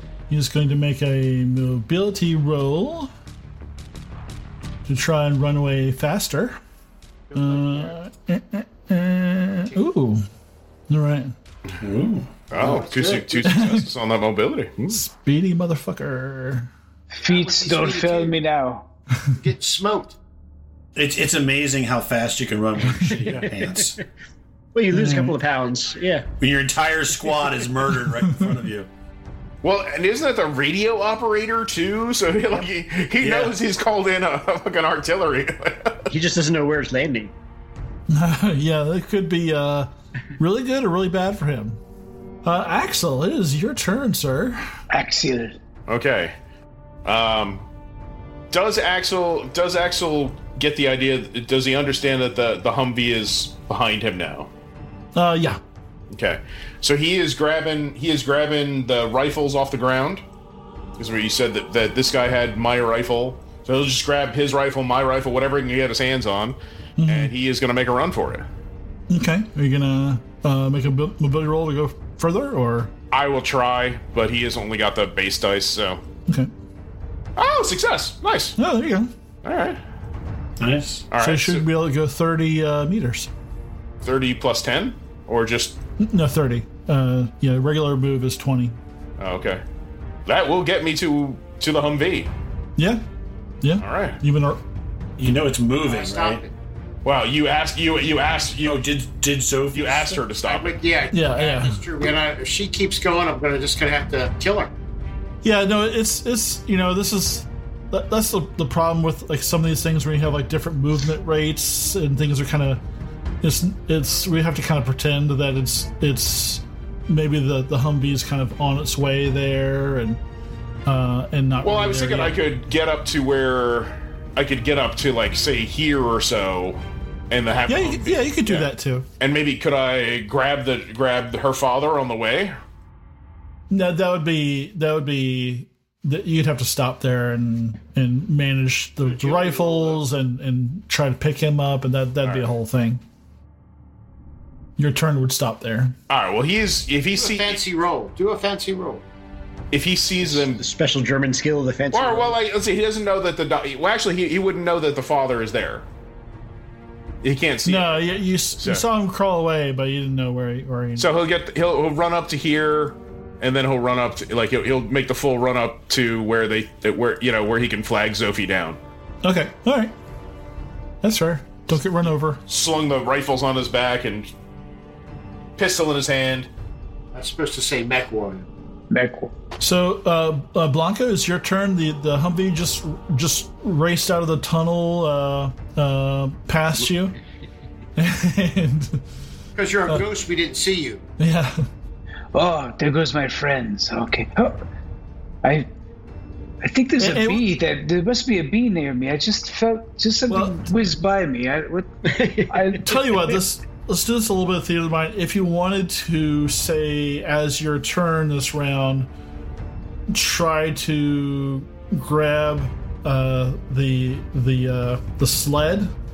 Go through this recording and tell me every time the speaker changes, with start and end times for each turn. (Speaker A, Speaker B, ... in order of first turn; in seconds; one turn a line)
Speaker A: 0.3-3.1
Speaker A: 4.9-6.6
Speaker B: 7.3-8.0
Speaker A: 7.3-10.3
Speaker A: 10.9-11.3
Speaker C: 11.8-12.3
Speaker D: 12.5-15.0
Speaker B: 12.5-13.5
Speaker A: 13.5-13.9
Speaker A: 14.9-16.7
Speaker E: 17.1-18.9
Speaker B: 17.2-18.4
Speaker B: 19.3-20.2
Speaker C: 20.9-24.0
Speaker F: 23.3-23.9
Speaker F: 24.8-26.3
Speaker A: 24.9-25.4
Speaker C: 26.4-28.9
Speaker D: 29.6-36.1
Speaker C: 33.2-33.5
Speaker F: 36.1-37.3
Speaker A: 38.1-41.8
Speaker A: 42.4-44.6
Speaker E: 44.9-45.6
Speaker D: 45.9-46.3
Speaker D: 47.0-47.7
Speaker D: 48.5-54.5
Speaker A: 55.1-55.6
Speaker D: 56.1-60.2
Speaker D: 61.0-68.5
Speaker A: 67.0-67.3
Speaker A: 69.1-72.9
Speaker D: 73.1-76.0
Speaker D: 77.4-78.6
Speaker A: 78.6-79.1
Speaker D: 79.4-79.8
Speaker C: 80.6-81.1
Speaker D: 81.1-81.7
Speaker A: 81.2-83.3
Speaker D: 84.0-85.8
Speaker A: 86.0-88.8
Speaker D: 89.2-89.6
Speaker D: 90.3-92.3
Speaker A: 92.8-93.0
Speaker A: 93.6-94.6
Speaker D: 93.8-94.2
Speaker C: 95.2-96.4
Speaker B: 95.8-96.5
Speaker D: 97.0-98.8
Speaker C: 98.6-100.2
Speaker D: 99.7-100.8
Speaker B: 100.4-104.7
Speaker A: 101.1-101.8
Speaker A: 105.4-112.8
Speaker A: 113.4-120.2
Speaker A: 120.9-122.4
Speaker D: 121.6-132.6
Speaker A: 127.7-129.1
Speaker A: 133.7-143.0
Speaker B: 139.1-140.0
Speaker D: 142.2-142.5
Speaker A: 144.8-145.9
Speaker D: 146.1-147.6
Speaker B: 147.1-149.0
Speaker D: 149.7-150.6
Speaker F: 150.2-152.4
Speaker D: 151.9-155.9
Speaker D: 157.2-158.9
Speaker A: 157.7-161.1
Speaker D: 161.0-168.8
Speaker A: 169.2-169.9
Speaker A: 171.0-172.4
Speaker D: 172.5-174.3
Speaker D: 175.6-176.5
Speaker B: 177.1-178.5
Speaker E: 178.9-179.3
Speaker A: 179.6-187.2
Speaker A: 188.0-189.0
Speaker B: 189.6-191.0
Speaker A: 191.2-191.6
Speaker E: 192.3-194.6
Speaker E: 195.4-195.7
Speaker E: 196.6-203.0
Speaker A: 197.0-197.5
Speaker A: 200.3-200.7
Speaker F: 202.1-203.3
Speaker A: 202.8-209.1
Speaker A: 210.1-215.9